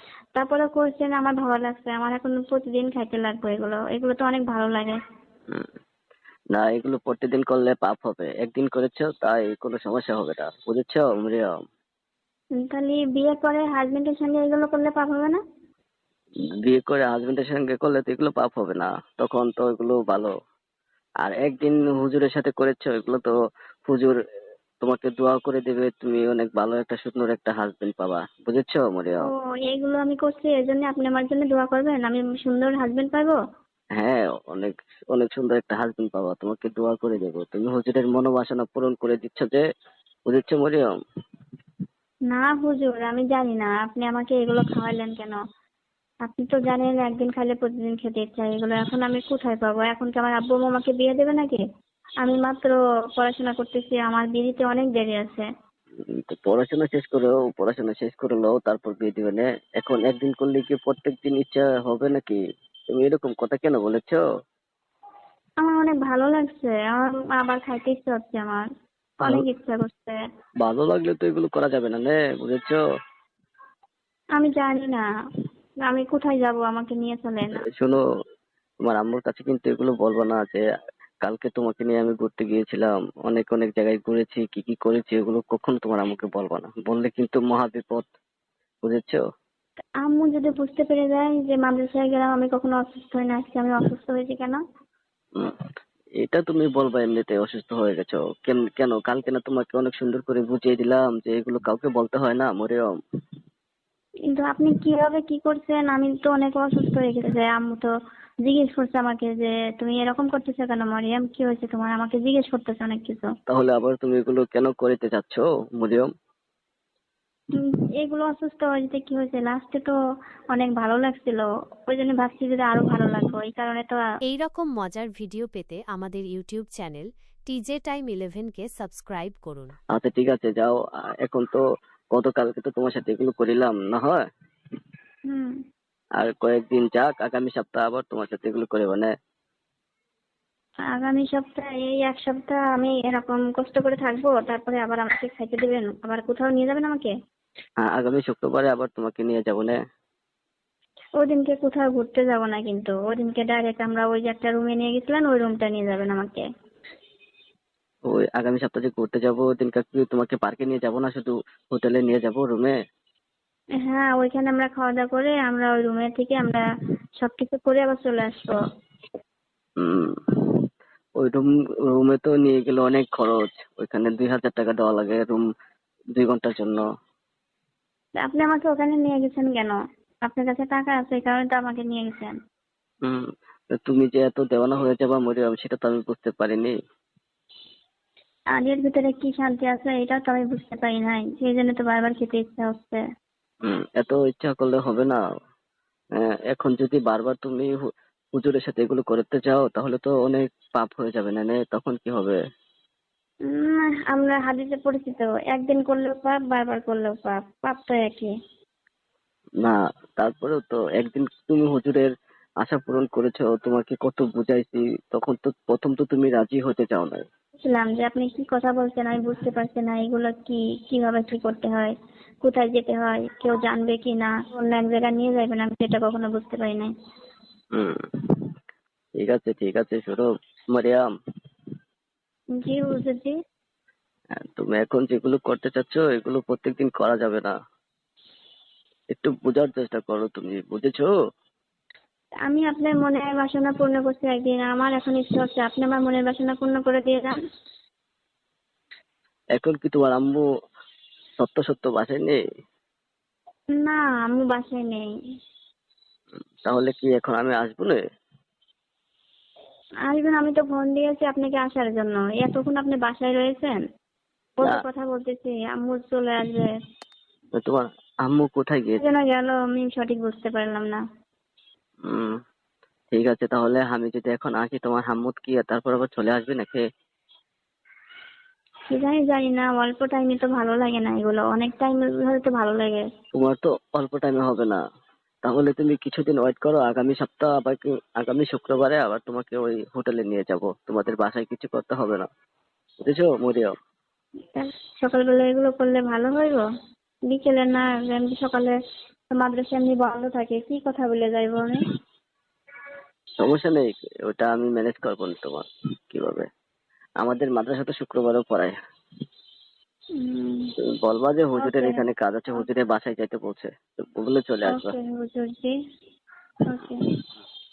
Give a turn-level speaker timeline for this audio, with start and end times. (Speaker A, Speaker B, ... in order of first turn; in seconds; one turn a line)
Speaker A: 0.3-5.0
Speaker B: 6.5-11.5
Speaker A: 12.6-15.4
Speaker B: 16.6-20.3
Speaker B: 21.2-23.3
Speaker B: 23.9-24.2
Speaker B: 24.8-29.3
Speaker A: 29.6-33.4
Speaker B: 34.0-39.6
Speaker B: 40.3-40.9
Speaker A: 42.3-45.4
Speaker A: 46.2-51.6
Speaker A: 52.2-55.5
Speaker B: 56.1-62.4
Speaker B: 62.9-64.2
Speaker A: 65.6-68.7
Speaker A: 69.2-70.2
Speaker B: 70.6-72.8
Speaker A: 74.4-75.0
Speaker A: 75.8-77.6
Speaker B: 77.6-78.0
Speaker B: 78.8-80.6
Speaker B: 81.2-88.0
Speaker B: 88.8-89.2
Speaker A: 90.0-94.6
Speaker B: 96.2-102.9
Speaker A: 104.3-107.9
Speaker A: 108.4-113.3
Speaker B: 113.5-116.1
Speaker A: 118.0-119.9
Speaker A: 120.5-124.0
Speaker C: 124.2-129.7
Speaker B: 129.9-131.6
Speaker B: 132.1-134.2
Speaker B: 136.2-139.1
Speaker A: 140.9-147.1
Speaker B: 147.8-149.8
Speaker A: 151.2-156.4
Speaker B: 158.1-162.8
Speaker A: 163.8-166.6
Speaker A: 167.2-168.6
Speaker B: 169.8-170.6
Speaker B: 171.2-175.4
Speaker B: 176.2-176.8
Speaker A: 178.2-182.3
Speaker B: 183.0-186.7
Speaker A: 188.6-193.0
Speaker B: 193.6-195.2
Speaker B: 196.2-197.7
Speaker B: 198.3-202.4
Speaker A: 203.5-208.3
Speaker B: 209.6-217.2
Speaker A: 217.7-226.9
Speaker B: 229.2-231.1
Speaker A: 232.6-233.3
Speaker B: 234.4-237.5
Speaker B: 239.1-241.1
Speaker A: 242.5-247.3
Speaker B: 249.6-250.4
Speaker B: 251.4-252.4
Speaker A: 253.8-255.1
Speaker B: 256.6-258.0
Speaker A: 260.1-263.8
Speaker A: 264.6-266.7
Speaker B: 267.6-269.0
Speaker A: 269.0-271.0
Speaker B: 273.1-276.8
Speaker A: 278.9-283.1
Speaker B: 283.3-284.8
Speaker B: 285.4-292.3
Speaker B: 293.0-293.7
Speaker A: 294.5-296.6
Speaker A: 297.3-298.8
Speaker A: 299.3-301.9
Speaker B: 303.4-306.4
Speaker B: 307.2-308.7
Speaker A: 310.2-310.7
Speaker B: 310.9-314.9
Speaker A: 311.6-312.0
Speaker A: 314.7-315.7
Speaker A: 316.6-317.0